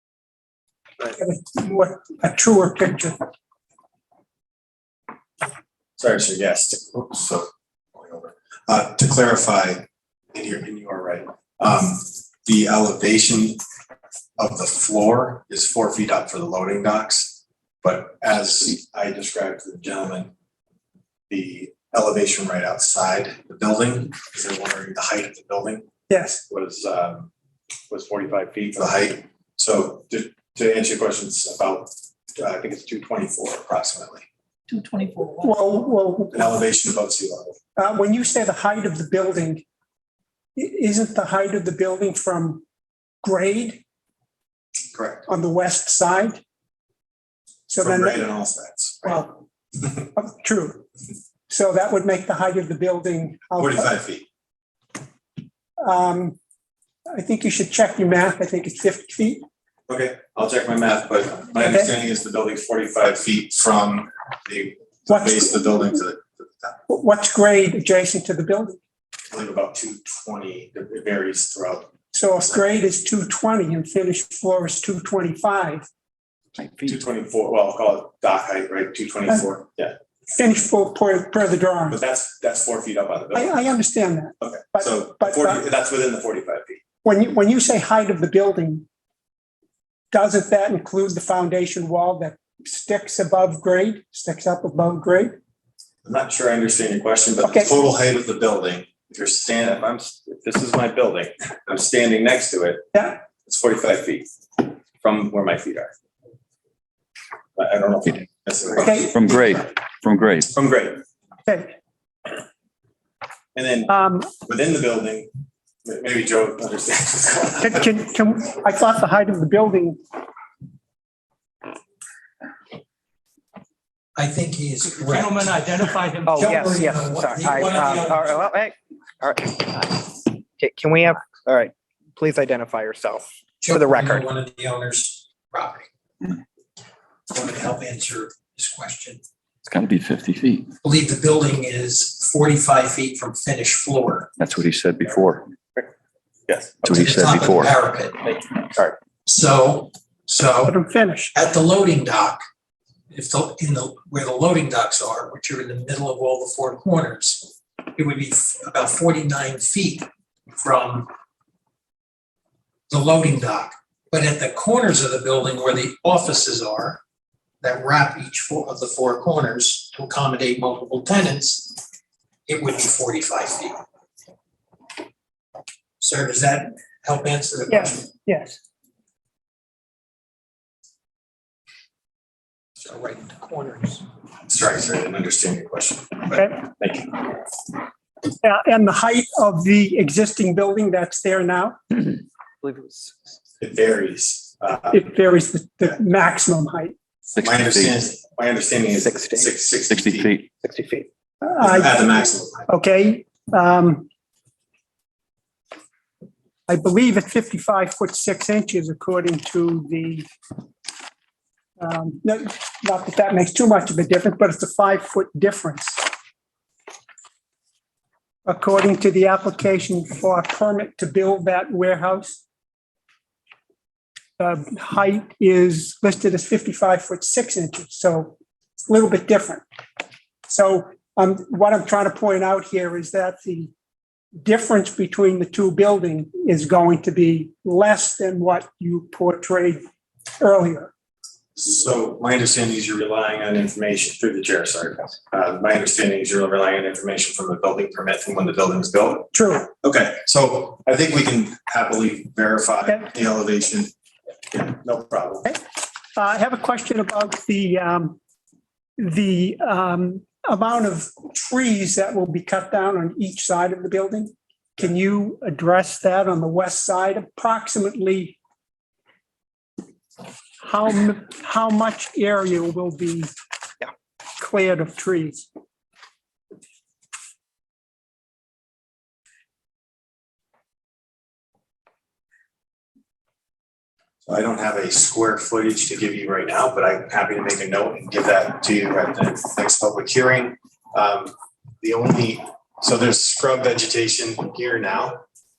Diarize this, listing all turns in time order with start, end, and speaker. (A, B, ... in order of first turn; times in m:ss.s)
0:01.0-0:03.2 A
0:06.0-0:13.6 B
0:14.4-0:20.3 B
0:21.3-0:25.9 B
0:26.1-0:26.4 A
0:26.5-0:27.3 B
0:27.9-0:34.3 B
0:34.7-0:35.5 C
0:35.4-0:36.5 A
0:36.3-0:37.6 B
0:37.8-0:39.6 A
0:40.6-0:42.6 A
0:43.2-0:43.8 A
0:44.9-0:45.3 B
0:45.3-0:46.4 A
0:47.7-0:48.2 A
0:47.8-0:49.3 B
0:49.0-0:49.3 A
0:50.2-0:50.8 A
0:51.5-0:53.9 A
0:53.6-0:54.3 B
0:55.8-0:56.4 A
0:57.1-0:59.4 A
0:59.9-1:06.8 B
1:01.6-1:01.9 A
1:05.1-1:05.9 A
1:06.9-1:08.8 A
1:09.3-1:11.9 B
1:12.1-1:15.9 A
1:16.7-1:20.0 B
1:20.3-1:22.0 A
1:21.9-1:23.6 B
1:23.3-1:25.6 A
1:24.4-1:26.8 B
1:27.0-1:28.9 A
1:30.1-1:35.4 A
1:36.0-1:45.9 B
1:37.4-1:37.7 A
1:47.6-1:49.1 B
1:48.8-1:49.2 A
1:49.0-1:50.5 D
1:50.5-1:51.0 B
1:51.5-1:51.8 A
1:53.6-1:53.9 B
1:53.9-1:54.3 A
1:54.4-1:55.3 B
1:55.8-1:57.9 B
1:57.6-2:00.0 A
2:04.2-2:08.6 E
2:05.0-2:07.0 C
2:06.2-2:14.2 F
2:13.6-2:15.9 E
2:17.3-2:19.2 E
2:19.7-2:20.7 D
2:20.8-2:24.3 E
2:24.4-2:25.5 D
2:26.8-2:27.7 D
2:26.8-2:28.4 E
2:29.3-2:30.8 E
2:30.7-2:31.3 A
2:31.3-2:32.4 E
2:33.1-2:41.1 E
2:42.9-2:47.0 E
2:47.6-2:51.8 E
2:52.5-2:53.8 E
2:56.0-2:58.1 E
2:57.7-2:58.6 A
3:02.8-3:04.1 E
3:04.5-3:07.4 B
3:08.4-3:11.8 A
3:12.6-3:13.1 F
3:13.6-3:15.0 B
3:14.9-3:17.0 A
3:17.4-3:17.9 D
3:17.4-3:20.3 B
3:19.0-3:19.5 F
3:19.9-3:20.5 D
3:20.6-3:21.1 F
3:21.4-3:24.1 A
3:21.6-3:22.7 B
3:26.7-3:30.3 A
3:31.8-3:36.0 A
3:38.5-3:42.4 A
3:44.4-3:48.4 A
3:48.9-3:49.6 A
3:50.5-3:53.7 A
3:54.4-3:59.8 A
4:00.4-4:00.9 A
4:01.6-4:09.3 B
4:09.3-4:09.7 A
4:09.8-4:13.9 B
4:14.5-4:15.6 B
4:16.2-4:18.2 A
4:19.0-4:28.4 A
4:30.6-4:33.3 A
4:34.4-4:35.5 A
4:44.3-4:55.2 B